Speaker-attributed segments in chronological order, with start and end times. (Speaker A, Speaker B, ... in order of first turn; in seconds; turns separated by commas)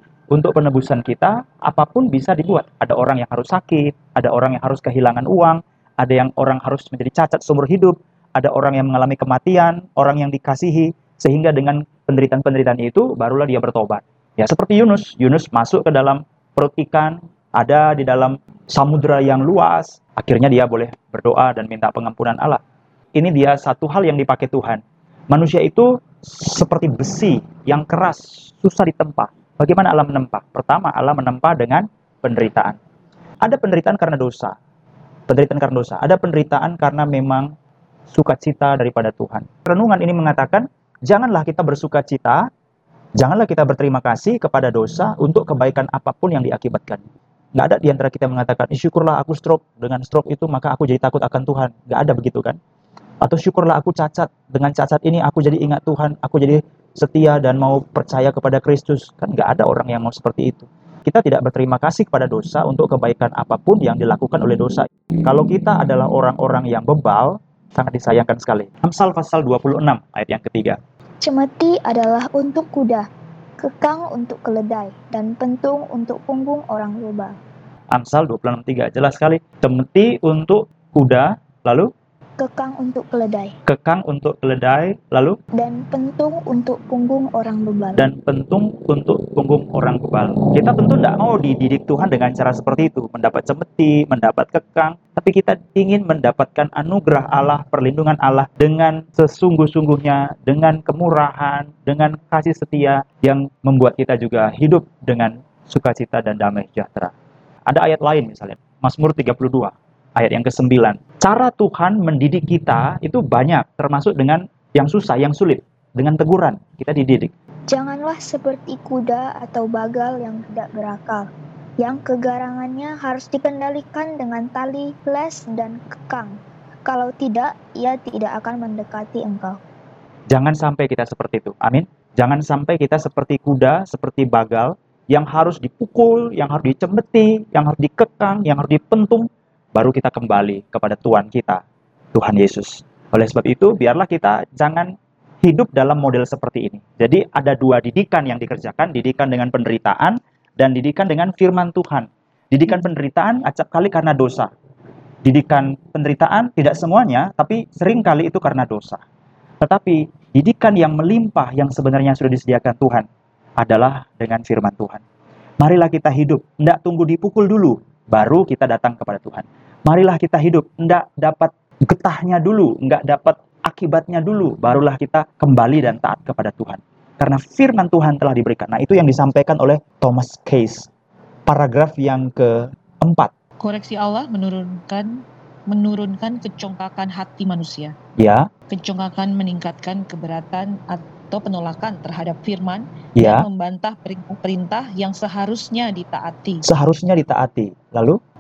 Speaker A: 0.3-22.6, Speaker A: 23.1-32.8, Speaker A: 33.4-34.6, Speaker A: 35.3-37.5, Speaker A: 38.1-42.4, Speaker A: 43.2-47.0, Speaker A: 47.5-52.6, Speaker A: 53.2-70.8, Speaker B: 71.2-73.1, Speaker B: 73.6-77.4, Speaker A: 77.9-81.9, Speaker B: 82.4-83.5, Speaker A: 83.7-85.4, Speaker B: 85.6-88.0, Speaker A: 88.0-107.1, Speaker A: 107.7-117.3, Speaker B: 117.7-121.3, Speaker B: 121.8-129.6, Speaker A: 130.3-141.6, Speaker A: 142.1-144.9, Speaker A: 145.4-154.5, Speaker A: 155.2-159.0, Speaker A: 159.6-163.1, Speaker A: 163.6-165.0, Speaker A: 165.6-180.9, Speaker A: 181.5-183.3, Speaker C: 183.6-185.1, Speaker C: 185.7-187.9, Speaker A: 188.2-188.5, Speaker C: 188.7-196.6, Speaker A: 193.2-193.5, Speaker A: 196.7-198.2